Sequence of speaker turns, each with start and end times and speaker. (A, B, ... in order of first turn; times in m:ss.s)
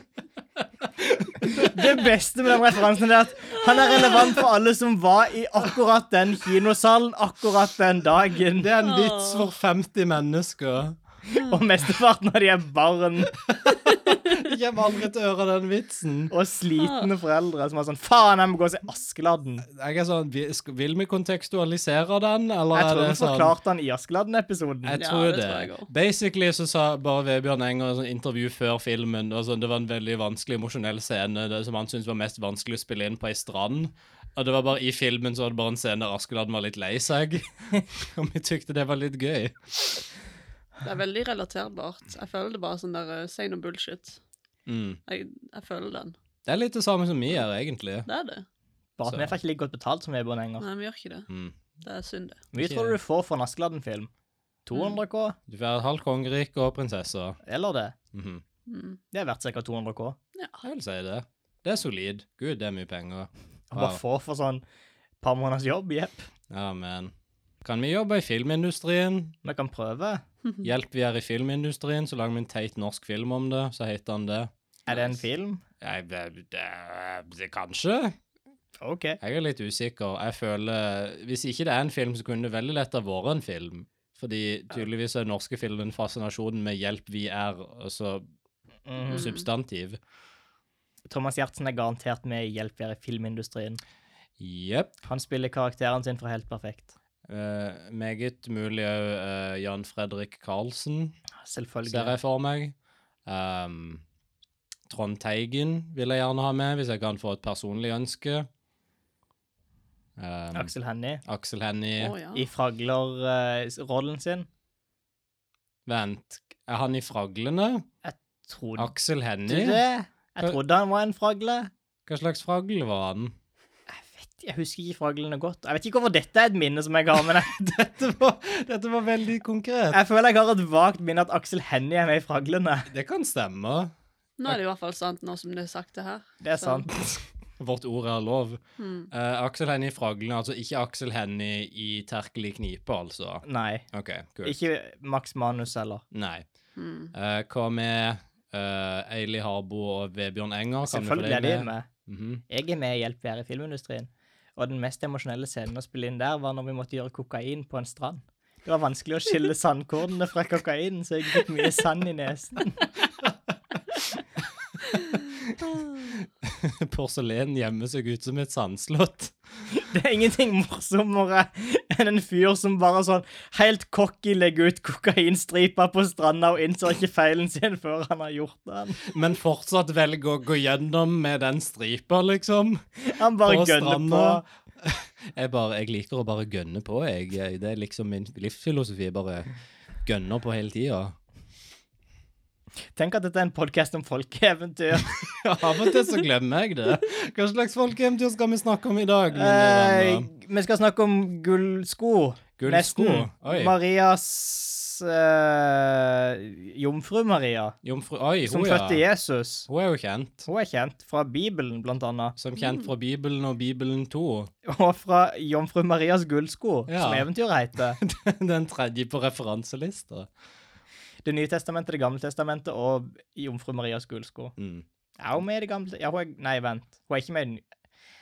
0:01.0-0:01.8 A
0:01.4-0:08.7 B
0:04.0-0:04.4 C
0:08.6-0:11.0 A
0:08.8-0:09.5 C
0:11.3-0:13.3 B
0:13.5-0:16.3 A
0:16.3-0:19.7 B
0:16.8-0:17.1 C
0:19.7-0:23.6 A
0:22.7-0:25.0 B
0:24.8-0:40.0 A
0:25.0-0:25.9 C
0:40.8-0:44.2 C
0:44.7-0:45.0 A
0:45.1-0:46.2 C
0:46.4-0:48.1 A
0:48.0-0:48.5 C
0:49.0-0:50.7 B
0:49.0-0:49.4 A
0:50.6-0:51.3 C
0:51.3-0:51.6 A
0:51.8-0:52.4 C
0:52.5-0:54.1 B
0:52.6-0:53.0 A
0:54.7-0:55.4 B
0:54.7-0:55.0 C
0:55.5-0:57.4 A
0:57.4-0:57.9 B
0:58.1-0:58.4 A
0:58.7-0:59.0 C
0:59.1-1:00.2 B
1:00.3-1:00.6 C
1:00.6-1:04.0 A
1:03.7-1:04.6 B
1:05.2-1:06.3 B
1:06.5-1:07.1 A
1:07.6-1:09.3 A
1:09.4-1:10.2 B
1:10.6-1:14.5 A
1:14.9-1:15.6 B
1:14.9-1:15.2 C
1:15.8-1:18.2 A
1:18.8-1:19.2 B
1:19.2-1:28.3 A
1:28.9-1:29.3 B
1:29.1-1:30.0 A
1:29.1-1:29.4 C
1:31.1-1:33.8 B
1:34.4-1:34.9 A
1:35.0-1:36.9 B
1:37.3-1:41.2 A
1:41.4-1:42.2 B
1:41.8-1:42.7 A
1:43.2-1:44.0 A
1:44.9-1:48.5 A
1:50.2-1:50.7 A
1:50.5-1:51.2 B
1:51.2-1:52.2 A
1:52.0-1:52.4 C
1:52.3-1:54.5 B
1:55.8-1:57.8 A
1:58.0-1:58.9 B
1:58.8-1:59.8 A
1:59.4-2:01.7 B
2:02.0-2:03.3 A
2:03.9-2:07.6 B
2:07.2-2:10.0 A
2:09.9-2:12.9 B
2:12.9-2:13.9 A
2:14.4-2:16.8 C
2:16.4-2:16.9 B
2:17.6-2:24.6 A
2:18.8-2:19.1 C
2:23.4-2:23.8 B
2:24.4-2:26.0 B
2:26.1-2:26.4 A
2:26.8-2:27.1 C
2:27.1-2:32.4 A
2:30.8-2:31.9 B
2:32.5-2:42.8 B
2:45.5-2:49.3 A
2:49.7-2:59.0 B
2:59.0-3:02.8 A
3:03.0-3:04.4 B
3:03.4-3:09.5 A
3:10.0-3:11.2 A
3:13.0-3:15.2 B
3:15.0-3:20.3 A
3:19.3-3:27.8 B
3:22.6-3:23.7 A
3:27.8-3:29.0 A
3:28.4-3:29.7 B
3:29.7-3:30.5 A
3:30.5-3:32.4 B
3:32.4-3:34.5 A
3:32.6-3:32.9 C
3:34.6-3:38.0 B
3:36.9-3:37.3 A
3:38.0-3:40.3 A
3:41.2-3:44.5 B
3:44.6-3:44.8 A
3:45.2-3:47.6 B